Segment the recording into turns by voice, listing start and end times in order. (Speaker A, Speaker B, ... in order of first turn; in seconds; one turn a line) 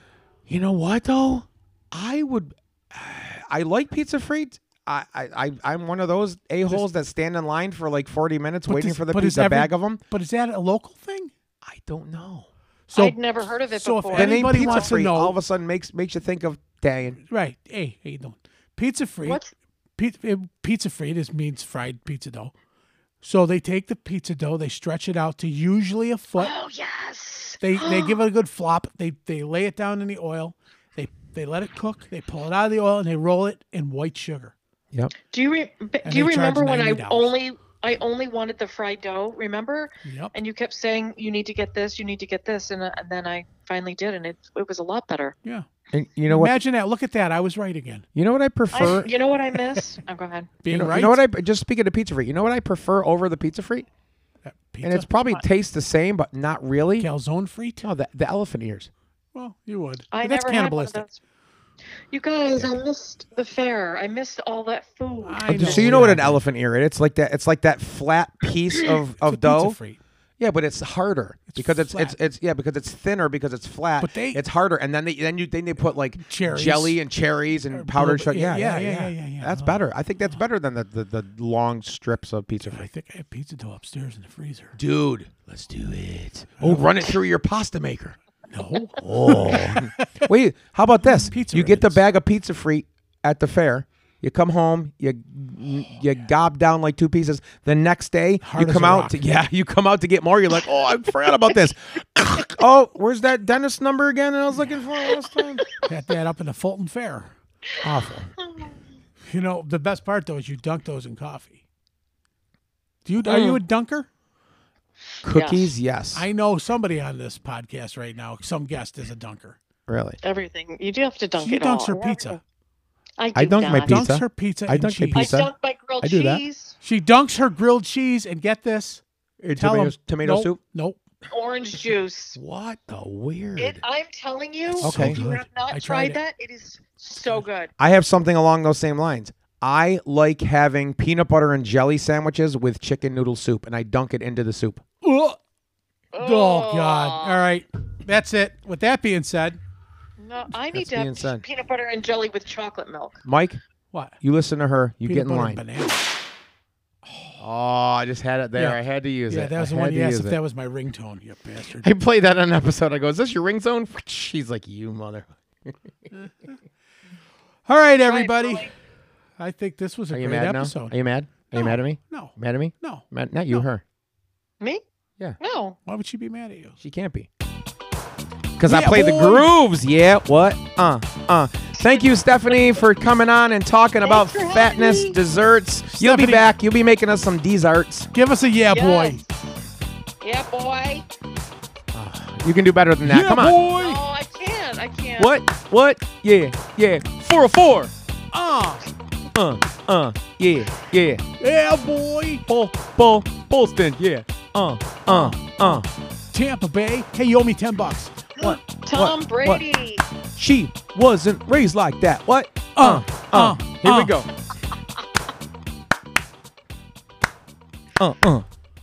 Speaker A: 0.5-10.0
Speaker B: 8.7-11.3
Speaker A: 11.6-12.5
Speaker B: 12.9-13.2
Speaker C: 12.9-14.9
Speaker B: 13.7-15.3
Speaker A: 14.1-17.2
Speaker B: 17.3-19.4
Speaker C: 19.2-19.5
Speaker B: 20.0-22.5
Speaker B: 23.2-26.5
Speaker C: 26.4-28.2
Speaker B: 27.6-34.5
Speaker C: 35.3-45.4
Speaker B: 36.0-37.3
Speaker B: 40.0-40.3
Speaker A: 45.9-46.5
Speaker B: 46.3-48.1
Speaker A: 48.1-49.1
Speaker C: 48.7-50.5
Speaker B: 50.6-51.2
Speaker A: 50.7-53.9
Speaker B: 54.4-55.1
Speaker A: 54.8-57.1
Speaker B: 57.0-57.9
Speaker A: 57.8-58.9
Speaker B: 59.3-61.0
Speaker C: 60.1-61.2
Speaker C: 62.1-66.0
Speaker B: 65.2-66.4
Speaker A: 65.5-69.8
Speaker B: 69.2-70.0
Speaker A: 70.4-82.9
Speaker B: 71.5-72.2
Speaker B: 74.0-74.4
Speaker B: 76.2-77.0
Speaker B: 77.7-79.8
Speaker B: 82.7-84.8
Speaker A: 84.7-88.2
Speaker B: 86.6-87.2
Speaker B: 88.5-90.3
Speaker A: 89.0-105.6
Speaker B: 91.0-92.0
Speaker B: 98.4-99.2
Speaker C: 105.6-105.9
Speaker B: 105.8-107.3
Speaker A: 107.8-108.2
Speaker B: 107.8-108.2
Speaker C: 108.4-108.8
Speaker B: 109.3-111.6
Speaker B: 113.0-114.1
Speaker C: 113.2-113.6
Speaker A: 115.2-116.2
Speaker C: 115.3-115.7
Speaker B: 116.1-119.6
Speaker A: 119.9-120.2
Speaker C: 120.2-122.4
Speaker B: 121.4-122.4
Speaker C: 123.2-124.0
Speaker A: 123.3-126.4
Speaker B: 123.6-125.3
Speaker C: 125.1-126.8
Speaker B: 126.8-129.0
Speaker A: 129.4-130.6
Speaker B: 129.6-131.0
Speaker C: 131.3-132.4
Speaker A: 132.3-133.8
Speaker C: 133.6-137.7
Speaker B: 134.7-136.2
Speaker A: 134.8-135.2
Speaker A: 137.8-144.8
Speaker B: 145.0-145.4
Speaker C: 146.1-147.4
Speaker B: 146.2-149.6
Speaker C: 150.2-153.2
Speaker A: 150.7-151.4
Speaker A: 153.2-153.6
Speaker B: 153.9-154.2
Speaker A: 154.2-155.6
Speaker B: 155.0-156.1
Speaker B: 157.0-157.4
Speaker A: 157.4-160.4
Speaker B: 158.6-161.9
Speaker A: 161.8-165.8
Speaker B: 166.1-166.6
Speaker B: 167.7-168.7
Speaker C: 168.0-168.7
Speaker B: 169.4-170.9
Speaker A: 170.1-173.8
Speaker B: 171.5-173.7
Speaker C: 175.4-175.8
Speaker B: 175.8-176.8
Speaker A: 176.8-177.3
Speaker A: 178.6-188.1
Speaker B: 178.7-179.5
Speaker C: 184.0-185.2
Speaker B: 185.9-186.5
Speaker B: 188.1-189.2
Speaker C: 188.7-189.6
Speaker C: 190.2-191.1
Speaker A: 191.9-193.6
Speaker B: 193.0-194.0
Speaker C: 193.7-195.3
Speaker A: 195.2-197.9
Speaker B: 198.3-198.8
Speaker A: 199.3-201.2
Speaker B: 201.4-202.4
Speaker A: 202.5-205.9
Speaker B: 205.1-208.6
Speaker C: 208.4-210.0
Speaker A: 208.9-209.6
Speaker A: 210.3-214.3
Speaker B: 212.8-214.2
Speaker A: 218.0-218.4